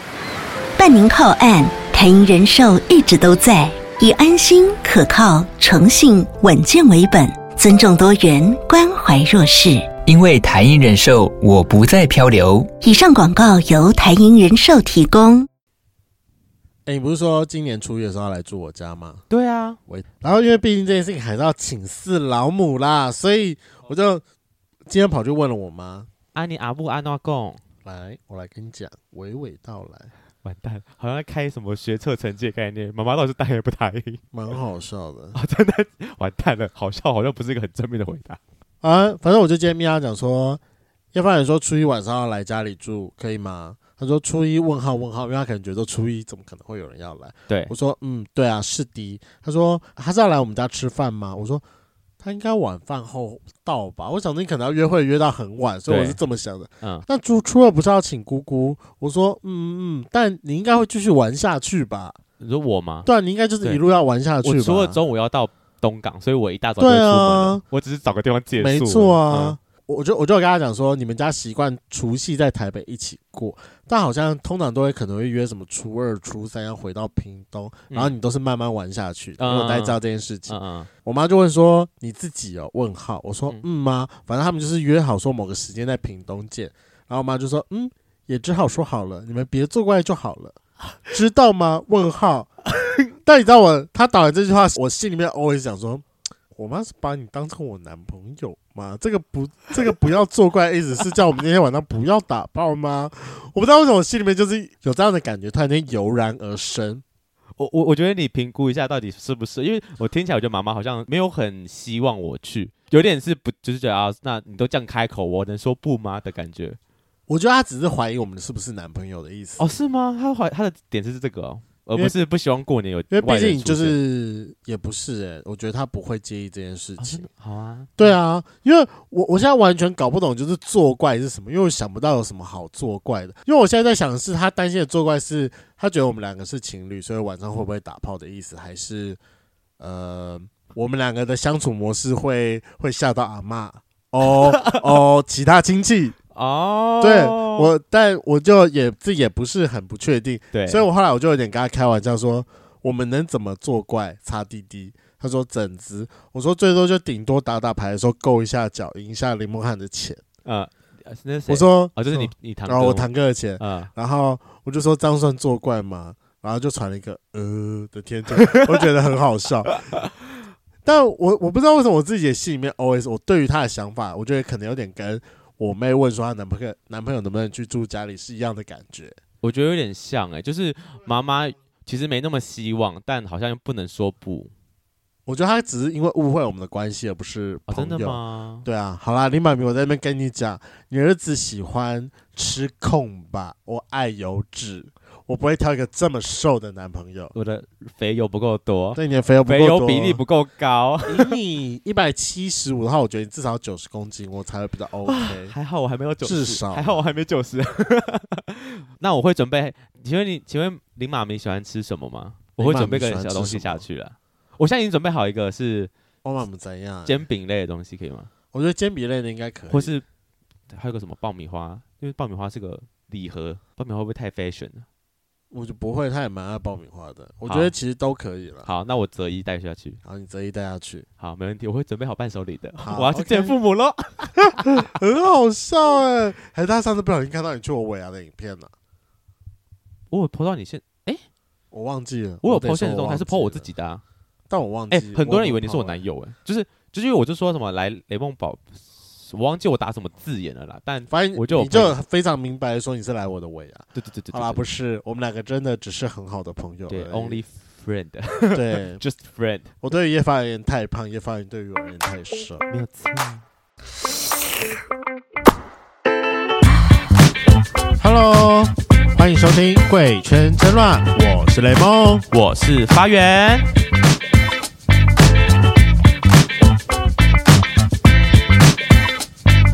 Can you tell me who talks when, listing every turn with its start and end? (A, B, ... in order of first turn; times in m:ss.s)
0:00.8-0:09.9 A
0:10.1-0:12.7 B
0:12.8-0:15.5 A
0:16.9-0:19.2 C
0:19.3-0:19.8 D
0:19.9-0:24.2 C
0:24.9-0:26.1 C
0:26.3-0:27.6 D
0:27.8-0:30.1 C
0:30.4-0:34.2 D
0:34.3-0:35.4 C
0:35.3-0:38.4 D
0:38.8-0:40.6 C
0:41.1-0:51.6 C
0:52.2-1:02.2 C
0:55.9-0:56.2 D
0:56.8-0:57.1 D
1:02.4-1:03.1 D
1:03.1-1:05.0 C
1:04.4-1:09.6 D
1:06.8-1:07.6 C
1:08.6-1:32.5 C
1:17.9-1:18.2 D
1:19.4-1:20.9 D
1:33.2-1:47.0 C
1:47.6-1:56.8 D
1:57.3-1:59.6 C
1:59.6-2:04.0 D
2:03.1-2:07.3 C
2:07.0-2:08.2 D
2:08.0-2:19.2 C
2:19.8-2:26.2 C
2:24.3-2:24.8 D
2:26.4-2:27.7 D
2:27.0-2:40.2 C
2:30.5-2:30.9 D
2:40.4-2:43.9 D
2:41.5-2:49.8 C
2:48.4-2:48.8 D
2:49.7-2:50.1 D
2:50.8-2:59.2 C
2:59.4-3:04.5 D
3:05.3-3:17.3 C
3:07.7-3:08.7 D
3:17.3-3:21.4 D
3:19.0-3:20.2 C
3:21.1-3:25.5 C
3:25.0-3:35.9 D
3:26.2-3:27.0 C
3:32.6-3:33.8 C
3:36.2-3:37.2 C
3:37.1-3:38.3 D
3:38.5-3:39.9 C
3:39.7-3:40.0 D
3:40.7-3:44.9 D
3:45.5-3:48.7 C
3:47.5-3:47.7 D
3:48.6-3:50.0 D
3:50.0-3:51.1 C
3:51.2-3:54.8 D
3:52.8-3:53.6 C
3:54.6-3:58.7 C
4:00.1-4:01.2 D
4:01.7-4:03.7 C
4:02.4-4:04.0 D
4:04.5-4:06.0 C
4:04.9-4:12.0 D
4:11.1-4:17.4 C
4:14.0-4:14.7 D
4:16.9-4:19.7 D
4:18.5-4:19.0 C
4:19.8-4:22.7 C
4:22.7-4:23.4 D
4:28.0-4:32.3 C
4:32.3-4:33.7 D